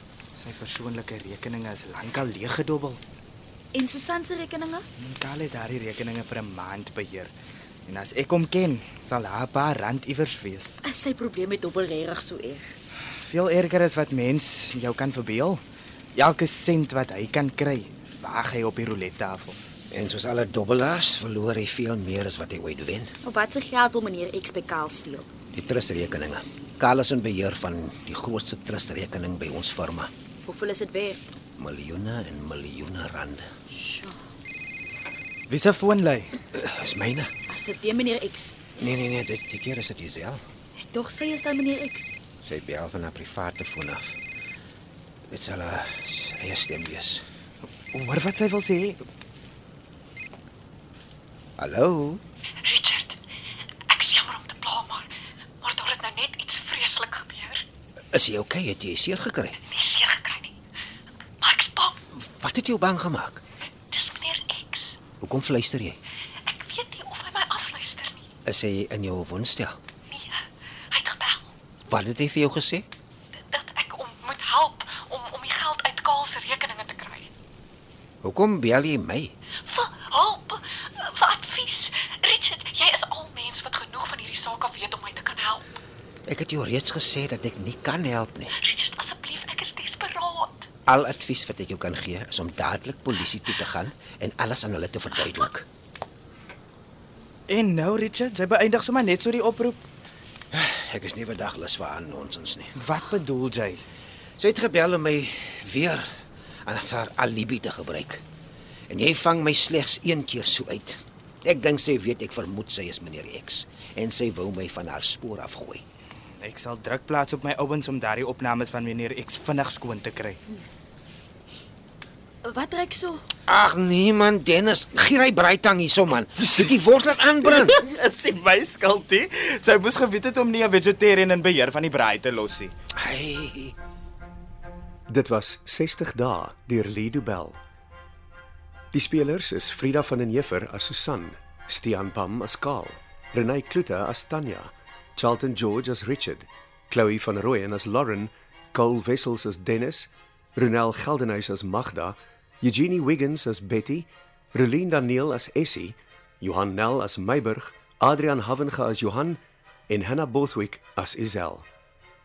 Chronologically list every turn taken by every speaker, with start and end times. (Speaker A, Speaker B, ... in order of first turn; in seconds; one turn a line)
Speaker A: 0.4-3.0
Speaker B: 3.7-4.8
Speaker A: 5.0-7.3
Speaker A: 7.9-10.8
Speaker B: 10.8-12.7
Speaker A: 13.2-15.6
Speaker A: 16.2-19.6
Speaker C: 19.9-23.1
Speaker B: 23.2-25.3
Speaker C: 25.5-30.1
Speaker B: 30.5-31.2
Speaker C: 31.6-33.5
Speaker B: 33.8-34.2
Speaker A: 35.5-36.3
Speaker C: 36.5-37.3
Speaker B: 37.5-38.5
Speaker C: 38.8-40.4
Speaker B: 40.8-42.1
Speaker C: 42.4-44.1
Speaker C: 45.3-47.2
Speaker A: 47.9-49.0
Speaker C: 51.6-52.2
Speaker D: 52.6-53.2
Speaker D: 53.9-55.1
Speaker D: 55.6-57.6
Speaker C: 58.1-59.6
Speaker D: 59.6-60.5
Speaker D: 61.4-62.0
Speaker C: 62.1-63.4
Speaker D: 63.9-65.0
Speaker C: 65.2-66.0
Speaker D: 66.5-68.3
Speaker C: 68.5-69.8
Speaker D: 70.1-71.5
Speaker C: 71.9-72.9
Speaker D: 73.4-77.3
Speaker C: 78.2-79.3
Speaker D: 79.6-85.6
Speaker C: 86.3-88.5
Speaker D: 88.6-90.7
Speaker C: 90.9-95.7
Speaker A: 97.5-99.8
Speaker C: 100.5-102.7
Speaker A: 102.8-103.8
Speaker C: 104.4-106.0
Speaker C: 106.7-108.2
Speaker C: 108.9-115.8
Speaker A: 116.4-120.4
Speaker B: 122.4-123.2
Speaker C: 123.5-127.8
Speaker A: 127.4-132.7
Speaker C: 132.9-133.8
Speaker E: 135.1-137.6
Speaker E: 138.9-161.7